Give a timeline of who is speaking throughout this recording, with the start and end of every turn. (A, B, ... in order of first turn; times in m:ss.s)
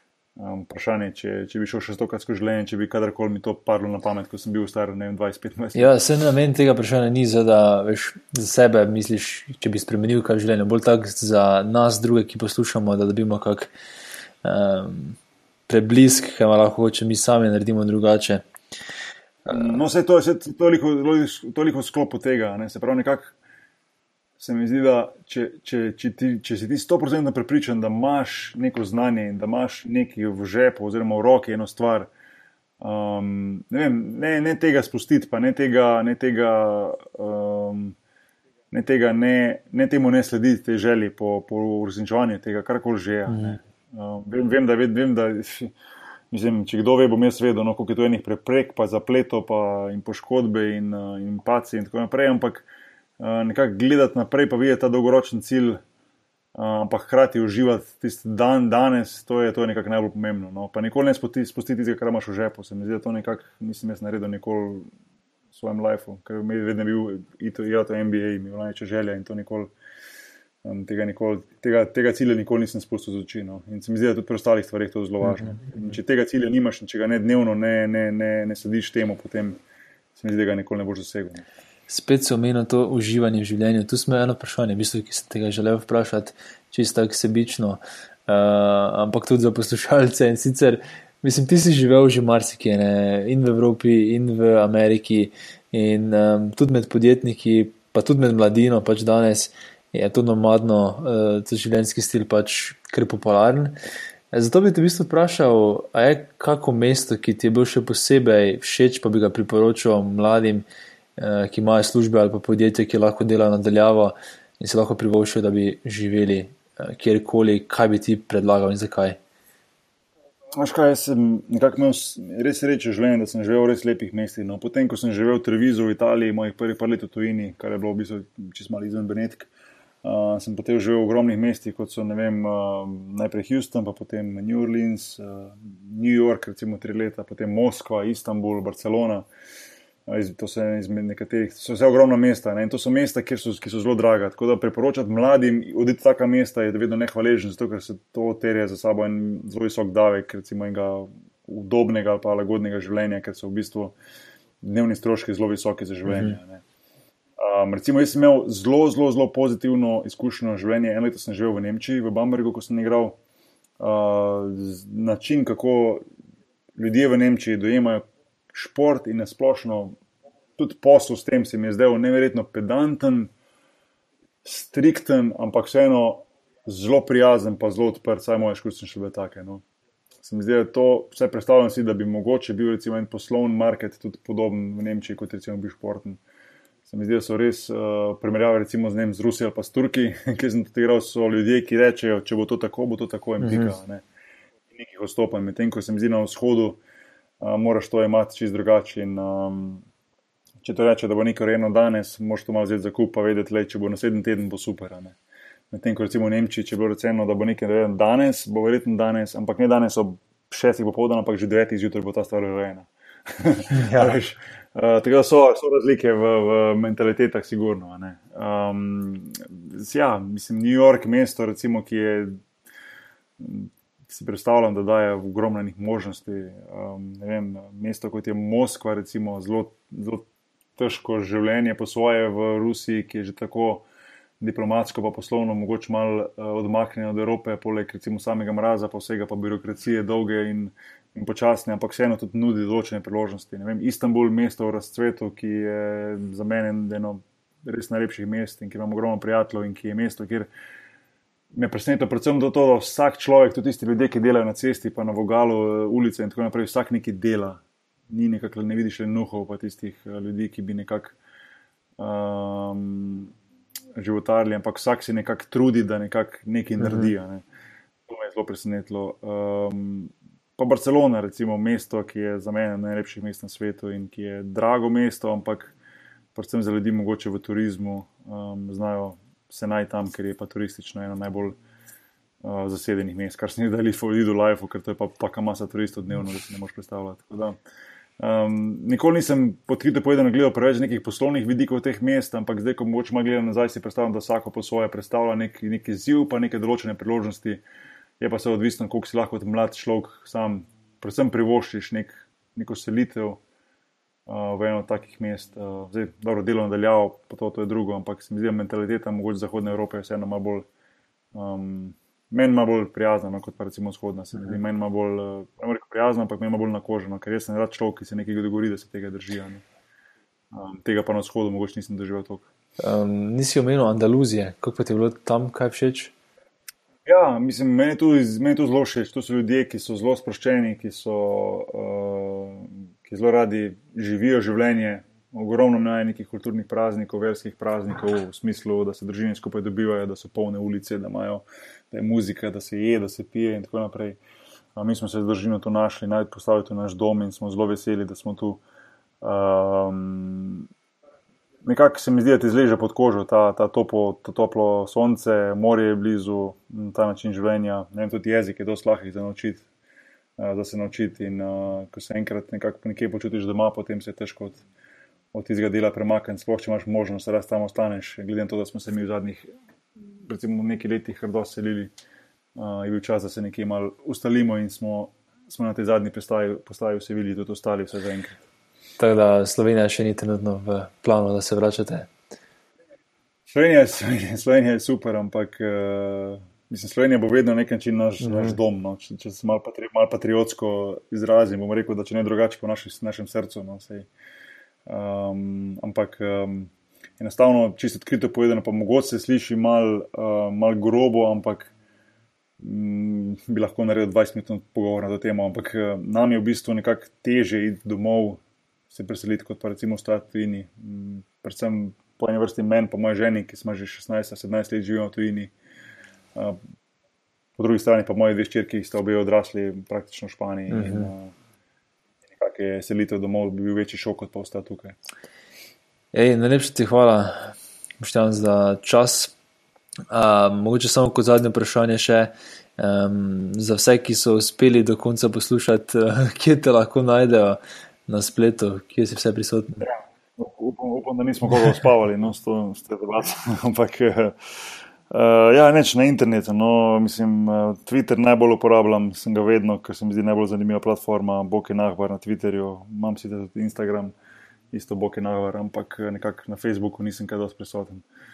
0:00.4-0:05.9 A
0:05.7-0:13.7 B
0:14.4-0:15.2 B
0:15.7-0:18.5 B
0:19.5-0:23.4 A
0:19.5-0:19.8 B
0:24.4-0:32.1 A
0:32.8-0:38.0 A
0:38.7-0:45.7 A
0:43.3-0:43.6 B
0:46.3-0:52.7 A
0:53.2-0:55.8 A
0:56.6-1:04.9 A
1:05.5-1:09.7 A
1:10.6-1:19.6 A
1:15.2-1:15.7 B
1:20.2-1:21.4 A
1:21.9-1:43.8 B
1:44.3-1:50.6 B
1:51.2-1:59.2 B
2:00.6-2:09.5 A
2:10.0-2:19.3 A
2:20.1-2:34.0 A
2:34.6-2:36.6 A
2:36.1-2:36.4 B
2:37.4-2:43.2 A
2:43.8-2:46.0 A
2:46.8-2:50.0 A
2:50.6-2:53.3 A
2:54.4-2:59.6 A
3:00.2-3:06.2 A
3:06.9-3:14.0 A
3:13.4-3:13.8 B
3:14.7-3:16.8 A
3:17.4-3:19.9 A
3:20.6-3:25.2 A
3:25.7-3:42.4 A
3:33.7-3:34.1 B
3:43.4-3:53.9 A
3:54.4-4:10.5 A
4:11.5-4:21.2 A
4:22.0-4:23.3 A
4:24.0-4:27.4 A
4:26.8-4:27.1 B
4:28.1-4:35.7 A
4:36.4-4:41.6 A
4:42.4-4:47.6 A
4:48.2-4:57.6 A
4:58.2-5:03.4 A
5:04.3-5:10.7 A
5:11.3-5:19.6 A
5:20.5-5:22.5 A
5:22.8-5:26.1 B
5:27.0-5:44.2 A
5:44.8-5:48.6 A
5:49.2-5:50.7 A
5:51.6-5:59.6 A
6:00.4-6:04.6 A
6:05.3-6:09.5 A
6:10.2-6:11.9 A
6:12.6-6:18.4 A
6:19.0-6:22.1 B
6:23.5-6:34.1 A
6:28.2-6:28.6 B
6:34.8-6:41.7 A
6:42.6-6:55.5 A
6:57.6-7:01.3 A
7:00.7-7:01.1 B
7:02.3-7:05.0 A
7:06.1-7:09.4 B
7:10.1-7:19.9 B
7:19.8-7:24.4 A
7:25.1-7:34.2 A
7:34.7-7:38.0 A